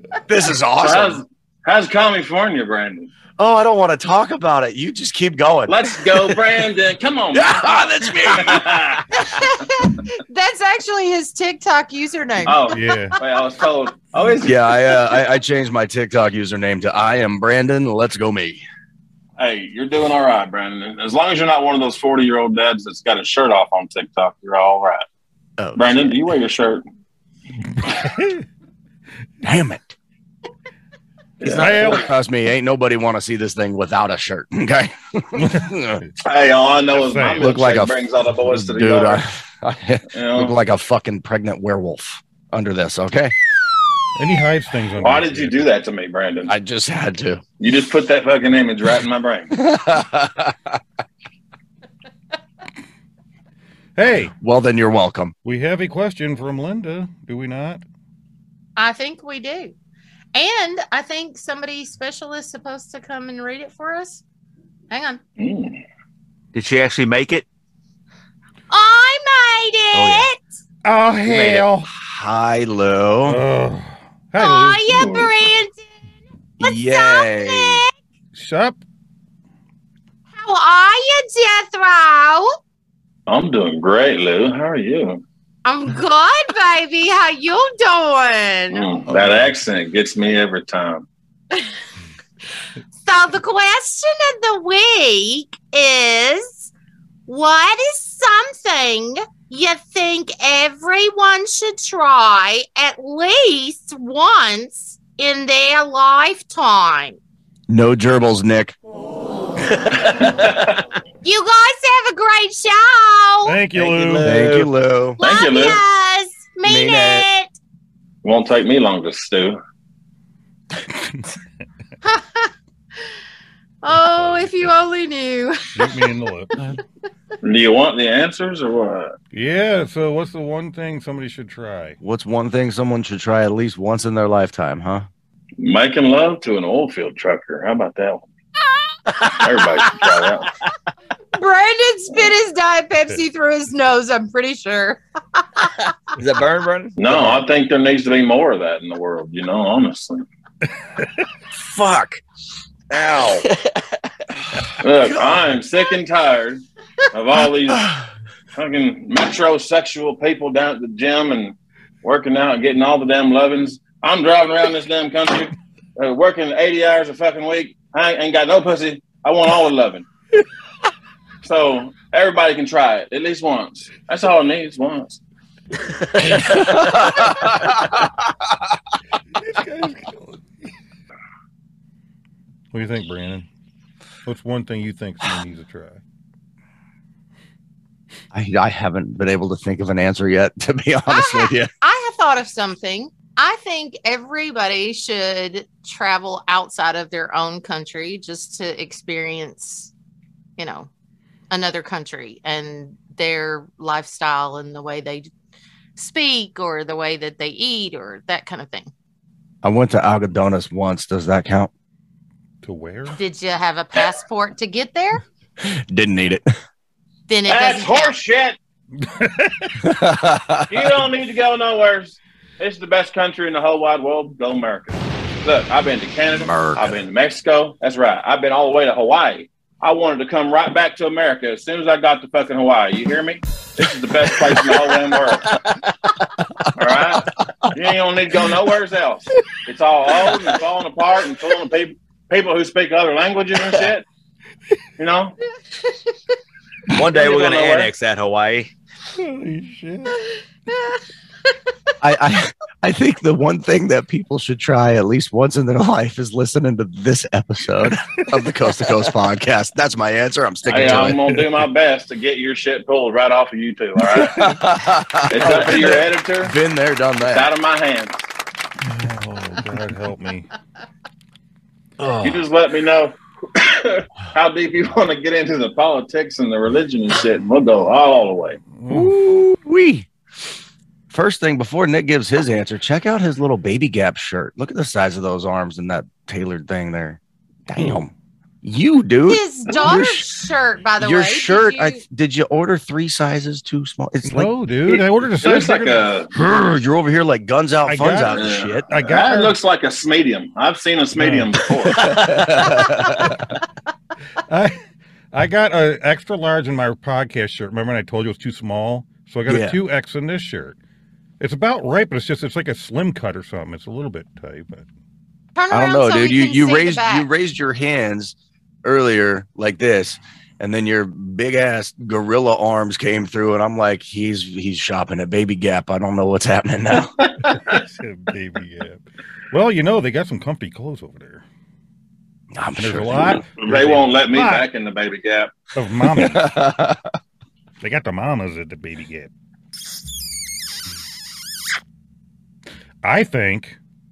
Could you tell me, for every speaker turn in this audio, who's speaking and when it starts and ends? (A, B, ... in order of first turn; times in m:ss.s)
0:00.3-0:01.2 A
0:00.8-0:03.1 B
0:03.4-0:06.5 A
0:05.7-0:09.2 B
0:07.3-0:09.0 A
0:09.1-0:12.8 C
0:12.4-0:15.0 B
0:12.7-0:13.2 D
0:14.4-0:18.6 A
0:19.4-0:25.0 B
0:25.6-0:26.2 A
0:25.8-0:26.8 B
0:27.7-0:28.4 D
0:29.4-0:30.0 A
0:31.4-0:32.0 B
0:31.4-0:32.1 D
0:31.5-0:36.0 A
0:35.4-0:36.1 D
0:36.2-0:39.2 B
0:36.9-0:37.5 D
0:37.4-0:43.3 A
0:40.1-0:40.6 B
0:44.2-0:45.6 D
0:45.0-0:46.5 B
0:46.5-0:47.4 A
0:47.6-0:49.5 B
0:49.5-0:50.8 A
0:54.0-0:54.3 D
0:54.4-0:55.3 A
0:55.4-0:57.8 D
0:58.8-0:59.8 C
1:00.4-1:04.2 C
1:04.9-1:05.2 C
1:05.4-1:05.8 B
1:06.5-1:07.4 E
1:08.7-1:10.4 C
1:09.9-1:10.3 E
1:10.8-1:11.9 D
1:11.3-1:11.6 E
1:11.9-1:13.4 A
1:13.3-1:14.9 D
1:14.4-1:15.8 C
1:14.9-1:15.3 B
1:16.6-1:17.8 A
1:16.6-1:17.9 C
1:18.3-1:18.8 D
1:20.4-1:22.6 C
1:23.3-1:25.2 B
1:25.6-1:28.9 C
1:28.7-1:31.1 B
1:29.1-1:29.5 D
1:33.0-1:36.7 C
1:37.3-1:47.2 C
1:47.7-1:48.8 A
1:50.1-1:50.8 B
1:51.2-1:53.6 C
1:53.4-1:54.6 D
1:53.7-1:54.7 E
1:54.2-1:55.2 A
1:55.2-1:57.5 C
1:55.2-1:55.8 B
1:56.6-1:57.3 A
1:58.2-1:59.6 B
2:02.0-2:02.5 C
2:03.8-2:06.0 C
2:04.0-2:04.6 D
2:05.7-2:06.8 D
2:07.4-2:09.2 B
2:09.3-2:12.0 D
2:12.0-2:15.1 A
2:15.6-2:18.2 B
2:19.2-2:20.5 B
2:21.4-2:25.8 C
2:26.2-2:27.4 E
2:27.0-2:30.2 B
2:31.5-2:32.2 A
2:32.9-2:33.5 A
2:34.8-2:37.9 B
2:35.0-2:35.4 A
2:38.5-2:50.1 B
2:51.4-2:55.2 B
2:56.6-2:57.8 A
2:59.4-3:00.7 D
3:02.7-3:03.5 D
3:04.2-3:06.0 D
3:08.3-3:11.7 A
3:11.1-3:19.9 C
3:20.6-3:20.9 C
3:21.5-3:25.3 C
3:26.0-3:28.9 C
3:29.6-3:31.7 A
3:32.6-3:33.2 D
3:33.2-3:35.2 C
3:35.6-3:36.5 A
3:37.3-3:38.1 C
3:37.5-3:38.6 B
3:39.0-3:39.8 D
3:39.8-3:40.9 A
3:40.7-3:55.6 B
3:46.3-3:46.9 A
3:56.8-4:04.0 B
4:05.0-4:05.4 B
4:06.9-4:08.7 E
4:07.0-4:07.9 B
4:09.2-4:10.2 D
4:12.0-4:21.2 A
4:20.7-4:24.6 B
4:20.7-4:21.5 D
4:24.1-4:27.5 A
4:25.3-4:26.6 B
4:27.2-4:28.2 B
4:28.8-4:30.5 D
4:32.0-4:32.3 D
4:32.2-4:38.6 B
4:38.7-4:39.4 D
4:38.9-4:40.1 A
4:41.1-4:48.1 A
4:47.8-4:48.0 D
4:48.6-4:50.3 A
4:49.3-4:52.0 C
4:51.0-4:54.5 A
4:54.2-4:56.0 D
4:54.9-4:56.3 B
4:56.4-4:58.9 A
4:57.9-4:59.6 D
4:58.3-5:02.3 B
5:01.2-5:01.6 D
5:01.8-5:03.4 A
5:04.5-5:04.8 D
5:05.3-5:10.8 D
5:09.5-5:09.8 A
5:11.4-5:14.9 D
5:15.6-5:17.3 C
5:15.7-5:27.2 A
5:27.5-5:31.4 D
5:32.6-5:33.4 A
5:32.8-5:34.7 D
5:33.6-5:35.6 B
5:35.8-5:36.5 D
5:36.1-5:37.1 A
5:37.8-5:39.3 D
5:43.0-5:43.8 D